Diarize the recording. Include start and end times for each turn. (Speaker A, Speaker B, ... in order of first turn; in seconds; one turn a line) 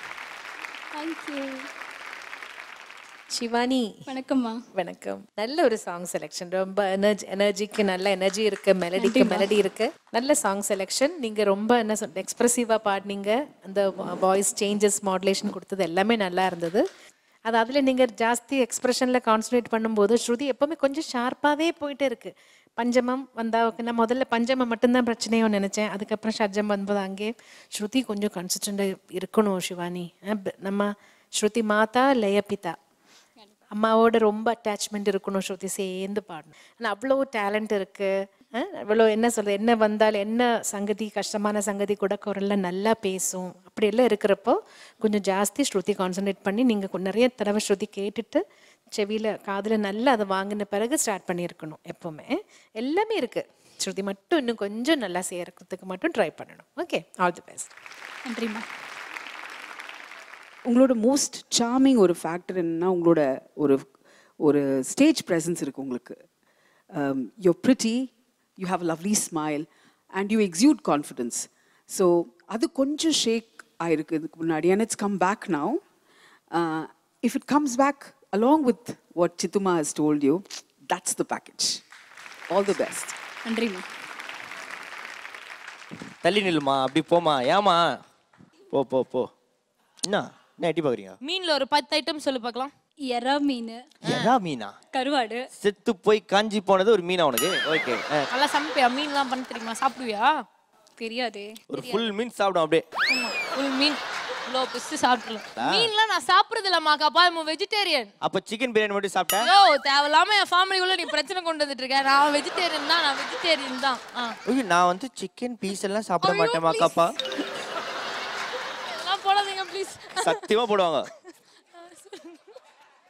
Speaker A: 0.9-1.6
Speaker B: 3.3-4.2
Speaker A: 4.1-4.6
Speaker B: 4.8-16.8
Speaker A: 8.9-9.5
Speaker B: 17.5-32.8
Speaker B: 33.7-48.4
Speaker B: 48.9-57.7
Speaker A: 58.3-58.6
Speaker C: 60.6-63.8
Speaker C: 64.4-66.2
Speaker C: 66.9-75.8
Speaker C: 76.5-81.8
Speaker C: 82.5-83.1
Speaker A: 83.5-83.8
Speaker D: 86.2-87.8
Speaker D: 88.7-89.3
Speaker D: 90.0-91.2
Speaker E: 91.2-92.7
Speaker A: 93.0-93.8
Speaker D: 94.0-94.8
Speaker A: 94.9-95.4
Speaker D: 95.5-98.2
Speaker E: 98.3-100.4
Speaker A: 101.0-102.1
Speaker D: 101.7-102.8
Speaker E: 103.1-108.1
Speaker D: 105.5-105.9
Speaker D: 108.2-109.5
Speaker E: 109.4-114.4
Speaker D: 114.4-117.1
Speaker E: 116.2-116.9
Speaker E: 118.8-120.4
Speaker D: 120.2-121.1
Speaker E: 121.9-122.2